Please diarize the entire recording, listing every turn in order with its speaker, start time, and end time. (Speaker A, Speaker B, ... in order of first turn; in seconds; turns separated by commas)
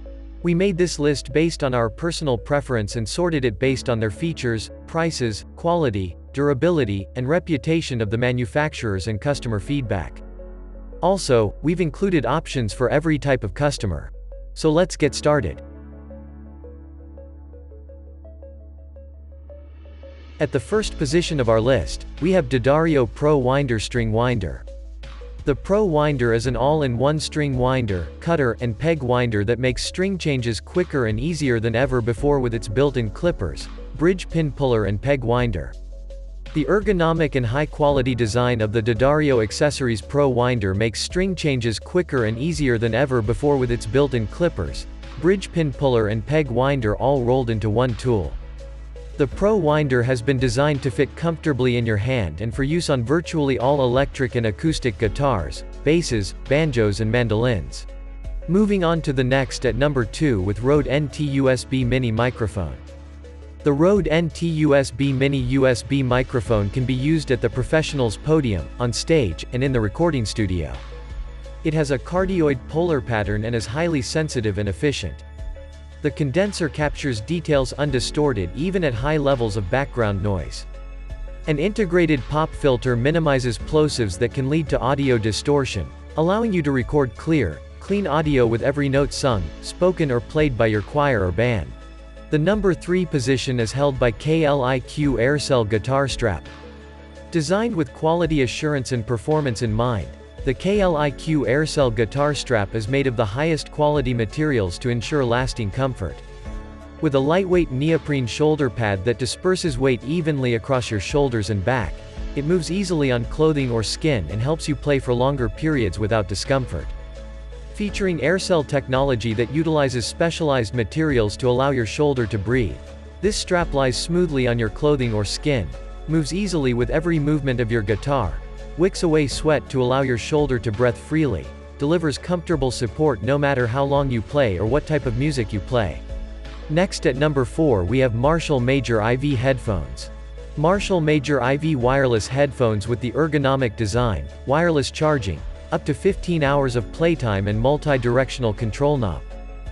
Speaker A: 0.4-10.2, Speaker A: 11.0-15.6, Speaker A: 20.4-24.6, Speaker A: 25.4-35.7, Speaker A: 36.5-48.4, Speaker A: 49.2-57.9, Speaker A: 58.5-62.8, Speaker A: 63.6-70.8, Speaker A: 71.6-75.2, Speaker A: 76.0-80.7, Speaker A: 81.5-91.8, Speaker A: 92.3-96.5, Speaker A: 97.3-106.2, Speaker A: 107.0-117.0, Speaker A: 117.7-136.0, Speaker A: 136.7-149.3